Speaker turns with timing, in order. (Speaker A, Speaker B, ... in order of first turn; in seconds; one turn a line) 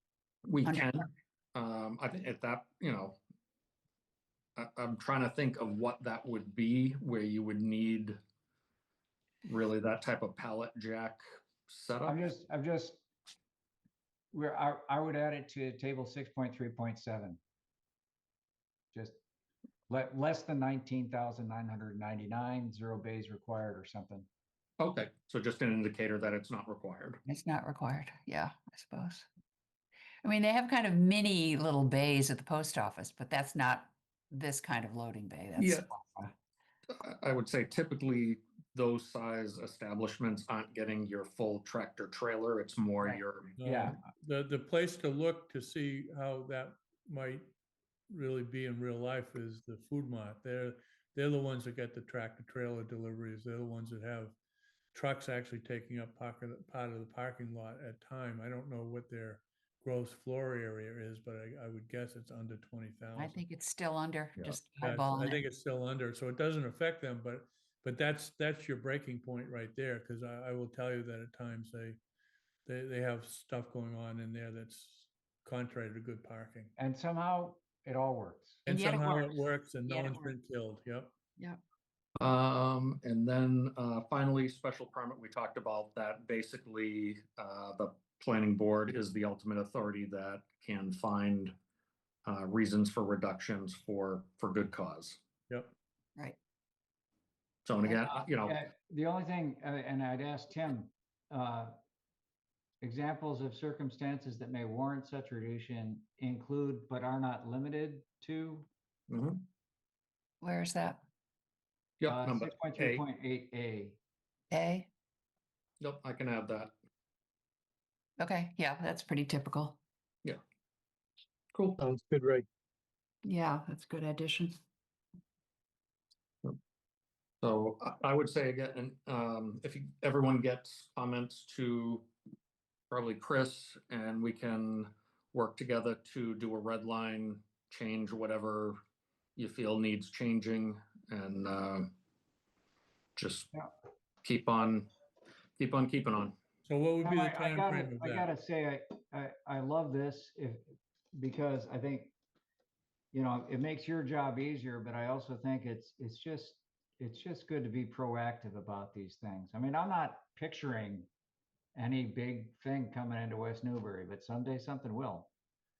Speaker A: 0.5-3.2
Speaker B: 0.6-1.1
Speaker A: 4.6-8.2
Speaker A: 9.4-12.2
Speaker C: 12.1-13.0
Speaker C: 14.3-17.4
Speaker C: 18.9-19.2
Speaker C: 19.9-24.3
Speaker A: 24.8-27.2
Speaker B: 27.2-29.3
Speaker B: 30.2-35.9
Speaker A: 35.5-35.9
Speaker C: 36.0-36.3
Speaker A: 36.9-43.6
Speaker C: 43.0-44.0
Speaker D: 43.6-47.5
Speaker D: 48.1-54.4
Speaker D: 54.9-63.4
Speaker B: 63.1-65.4
Speaker D: 64.4-72.0
Speaker D: 72.6-76.7
Speaker C: 76.8-78.6
Speaker D: 78.6-81.1
Speaker B: 78.7-80.3
Speaker A: 82.2-91.5
Speaker A: 92.2-95.2
Speaker D: 95.5-95.7
Speaker A: 97.7-98.6
Speaker C: 98.1-101.8
Speaker C: 102.8-108.7
Speaker A: 109.1-109.5
Speaker B: 110.4-111.0
Speaker A: 112.0-113.0
Speaker C: 112.1-114.0
Speaker B: 114.5-114.9
Speaker A: 115.8-116.7
Speaker B: 118.2-119.8
Speaker A: 121.5-121.8
Speaker D: 121.8-122.5
Speaker B: 123.2-124.5
Speaker A: 127.4-132.1
Speaker A: 132.9-138.8
Speaker A: 139.3-141.9
Speaker A: 143.2-143.5
Speaker A: 144.2-144.9
Speaker A: 145.6-146.3
Speaker D: 146.6-148.3
Speaker C: 147.0-152.1
Speaker C: 153.1-161.1
Speaker C: 161.7-165.3